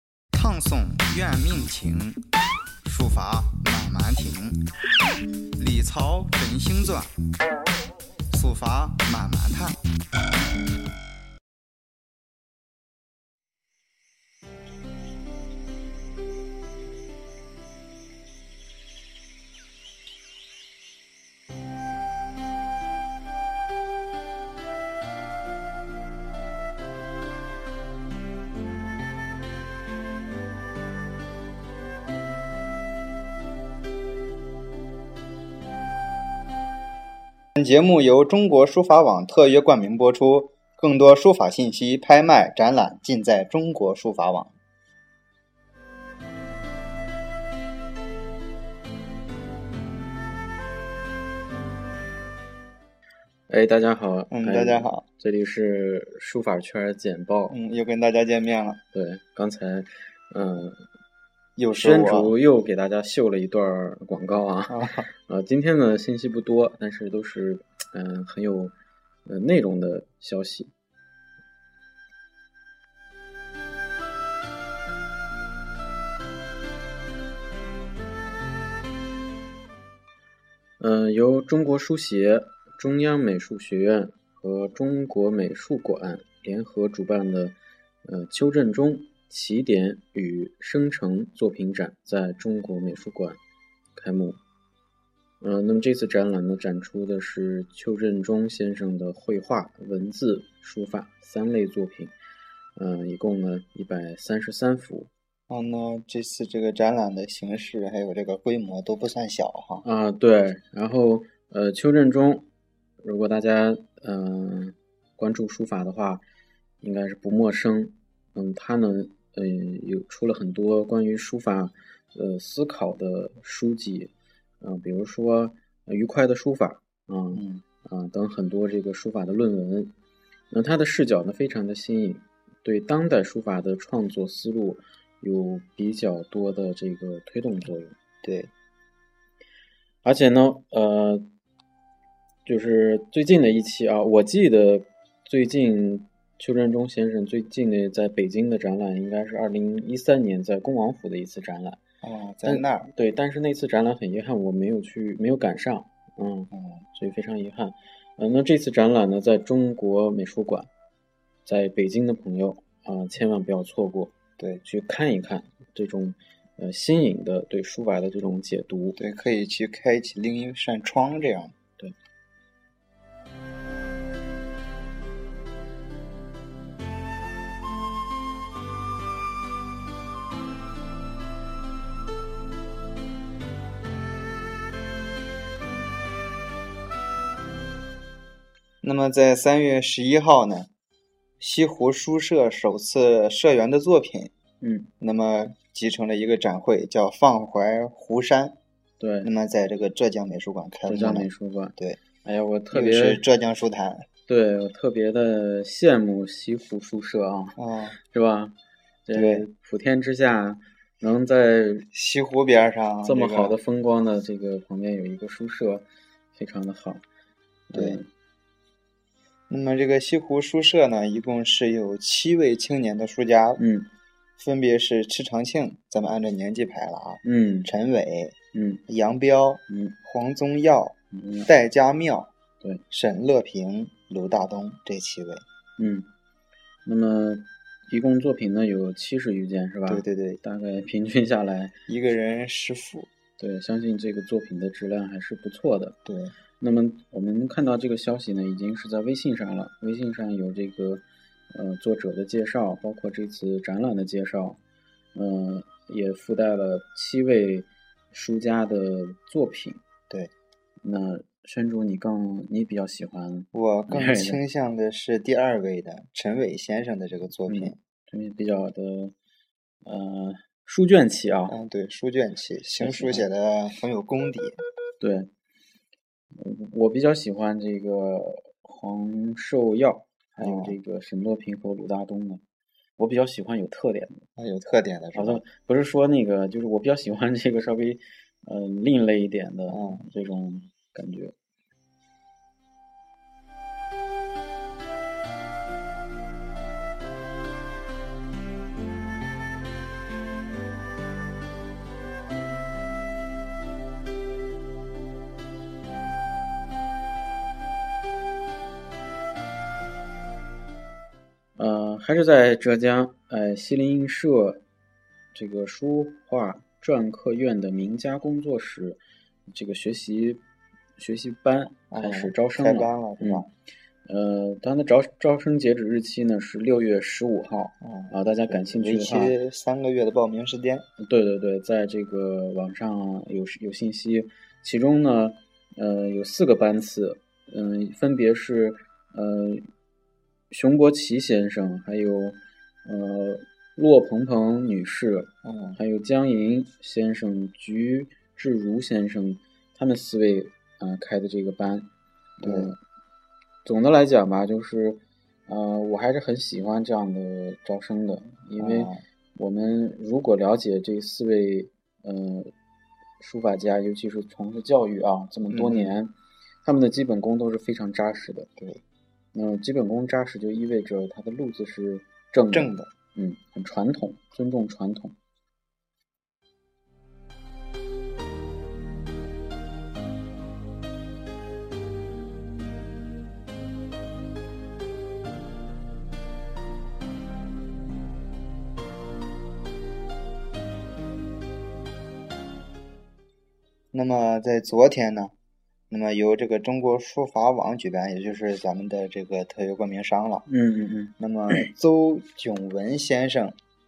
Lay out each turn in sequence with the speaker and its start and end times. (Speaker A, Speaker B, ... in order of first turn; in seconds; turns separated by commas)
Speaker A: 0.3-2.2, Speaker A: 2.8-4.6, Speaker A: 5.5-7.1, Speaker A: 8.3-9.8, Speaker A: 37.5-44.5, Speaker B: 53.5-57.5, Speaker A: 54.3-55.0, Speaker A: 57.5-58.8, Speaker B: 58.9-60.8, Speaker A: 61.6-62.4, Speaker B: 61.7-68.7, Speaker A: 64.7-65.1, Speaker B: 69.2-70.7, Speaker B: 80.8-93.4, Speaker B: 93.9-94.4, Speaker B: 95.4-102.1, Speaker B: 102.8-105.1, Speaker A: 105.5-109.8, Speaker B: 109.8-112.5, Speaker B: 113.0-116.2, Speaker B: 116.8-129.9, Speaker A: 127.3-127.6, Speaker B: 130.5-137.9, Speaker A: 138.2-138.5, Speaker B: 140.0-141.3, Speaker B: 142.4-151.8, Speaker A: 152.0-152.9, Speaker B: 152.4-160.7, Speaker A: 156.5-156.8, Speaker B: 161.4-169.0, Speaker A: 169.0-171.5, Speaker A: 188.8-190.7, Speaker A: 191.4-194.3, Speaker B: 194.6-194.9, Speaker A: 195.0-198.6, Speaker B: 199.0-199.3, Speaker A: 199.2-202.0, Speaker B: 200.8-203.2, Speaker A: 202.7-204.1, Speaker B: 204.3-211.9, Speaker A: 207.6-208.0, Speaker A: 209.1-209.5, Speaker A: 211.9-213.6, Speaker B: 213.0-217.0, Speaker B: 217.7-218.1, Speaker A: 217.7-218.0, Speaker A: 219.5-223.6, Speaker B: 223.6-223.9, Speaker A: 224.4-228.3, Speaker B: 227.2-227.7, Speaker B: 228.5-228.8, Speaker A: 228.9-232.3, Speaker B: 229.7-229.9, Speaker B: 231.1-231.5, Speaker A: 232.9-235.4, Speaker B: 235.8-236.1, Speaker B: 236.8-241.8, Speaker A: 239.8-240.4, Speaker A: 241.9-243.1, Speaker B: 243.4-246.0, Speaker A: 246.1-246.3, Speaker B: 246.6-254.6, Speaker B: 255.1-259.8, Speaker B: 260.8-264.4, Speaker A: 263.5-267.8, Speaker B: 267.5-269.1, Speaker B: 269.8-271.6, Speaker A: 271.5-274.6, Speaker B: 272.8-273.3, Speaker B: 275.0-275.3, Speaker B: 276.3-282.4, Speaker A: 280.4-280.8, Speaker B: 283.0-284.2, Speaker A: 284.4-285.4, Speaker B: 285.1-291.3, Speaker A: 289.7-290.0, Speaker B: 311.6-314.6, Speaker B: 315.3-320.4, Speaker B: 321.0-323.4, Speaker A: 321.9-323.5, Speaker B: 324.1-329.4, Speaker A: 327.8-330.9, Speaker B: 331.0-339.7, Speaker B: 340.5-352.8, Speaker A: 345.4-345.8, Speaker A: 352.4-352.7, Speaker B: 353.6-362.5, Speaker A: 358.6-359.0, Speaker B: 363.2-368.5, Speaker A: 365.5-366.0, Speaker A: 368.6-368.8, Speaker B: 369.3-375.1, Speaker A: 372.5-372.9, Speaker A: 393.9-395.3, Speaker A: 395.9-400.4, Speaker B: 400.5-401.7, Speaker A: 401.2-403.6